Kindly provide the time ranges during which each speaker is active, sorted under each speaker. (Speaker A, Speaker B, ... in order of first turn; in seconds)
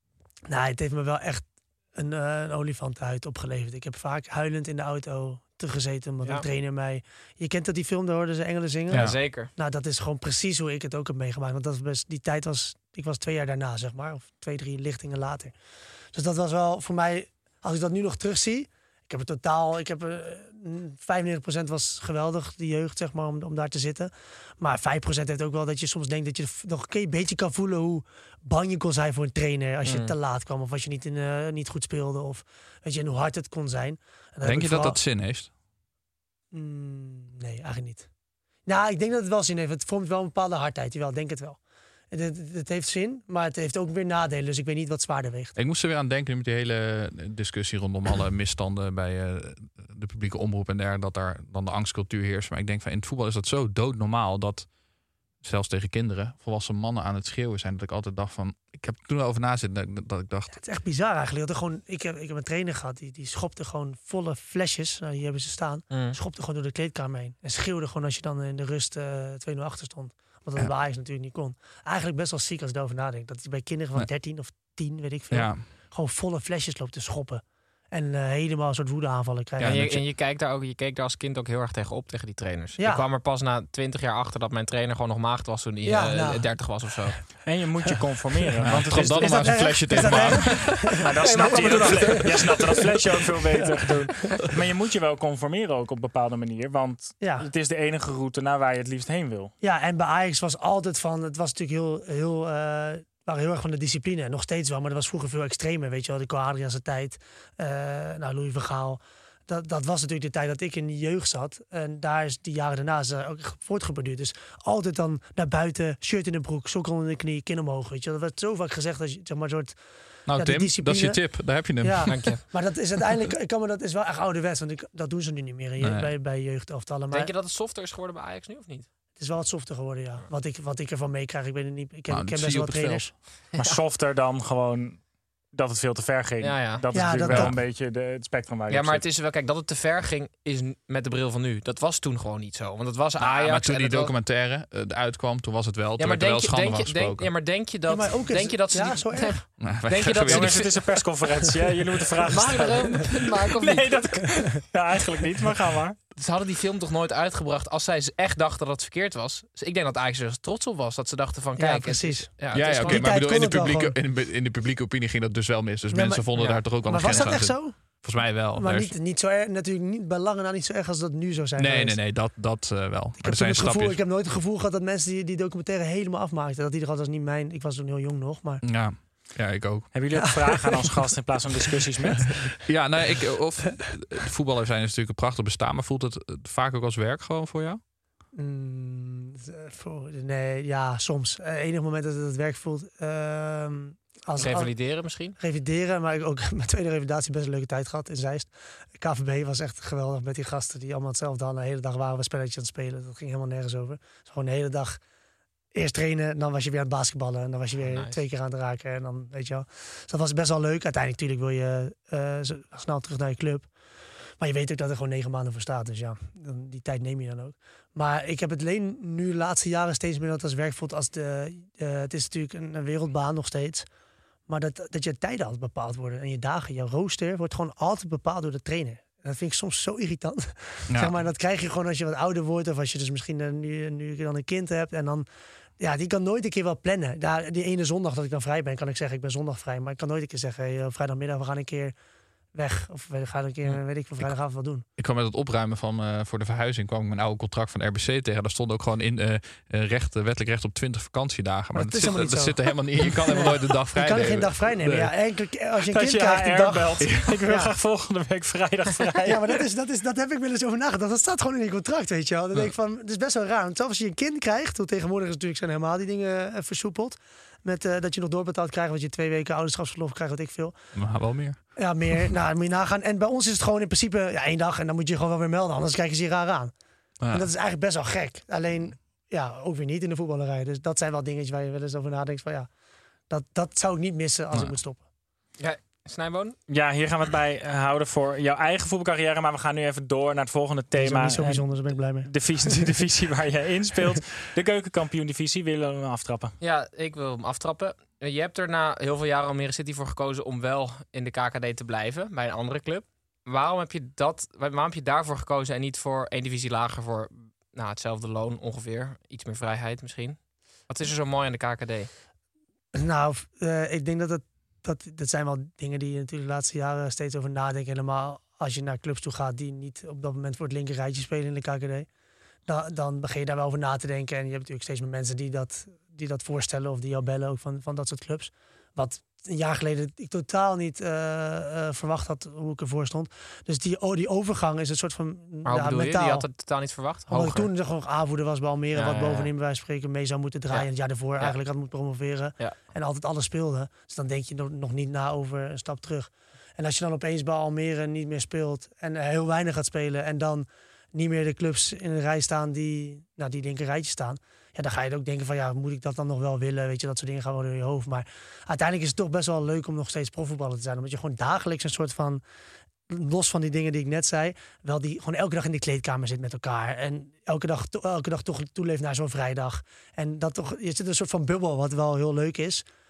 Speaker A: 0.5-15.5, 16.1-35.0, 36.5-38.1, 38.6-45.5, 60.5-79.8, 82.8-83.0, 85.8-86.7, 88.6-92.7, 93.6-94.5, 97.2-97.5, 99.6-119.8, 120.3-127.3, 129.2-133.2, 136.9-137.5, 147.9-149.5, 152.3-152.9, 161.6-163.9, 165.9-172.0, 173.2-178.6, 180.1-180.5, 188.3-205.0, 205.7-213.7, 214.4-223.9, 224.5-235.3, 235.8-241.9, 242.6-244.9, 251.7-257.7, 259.2-270.8, 271.8-276.7, 277.3-282.7, 283.3-285.0, 290.9-292.8, 312.9-322.1, 322.7-336.5, 337.3-362.4, 363.1-372.9
Speaker B: 8.9-9.2, 34.4-35.5, 45.6-54.8, 55.4-60.5, 75.3-75.7, 79.6-80.0, 88.6-91.0, 120.3-122.4, 125.8-126.1, 132.1-133.2, 137.3-137.6, 143.2-147.3, 149.6-150.8, 162.5-168.9, 171.6-174.0, 178.6-179.9, 182.7-187.8, 243.7-244.3, 245.0-255.1, 257.1-257.3, 270.9-271.6, 277.2-277.5, 284.5-284.8
Speaker C: 8.9-9.5, 29.8-30.1, 65.9-66.2, 79.6-87.2, 91.3-92.3, 122.1-122.4, 127.1-128.9, 136.4-137.1, 138.7-144.2, 146.0-150.8, 152.3-154.0, 156.2-163.1, 166.4-166.6, 194.4-195.4, 207.8-208.2, 285.6-286.6, 296.6-312.1, 335.6-337.7, 338.9-339.5, 340.7-341.6
Speaker D: 87.5-90.1, 91.0-99.5, 133.5-139.1, 150.3-156.0, 179.9-182.4, 255.9-259.6, 286.7-296.6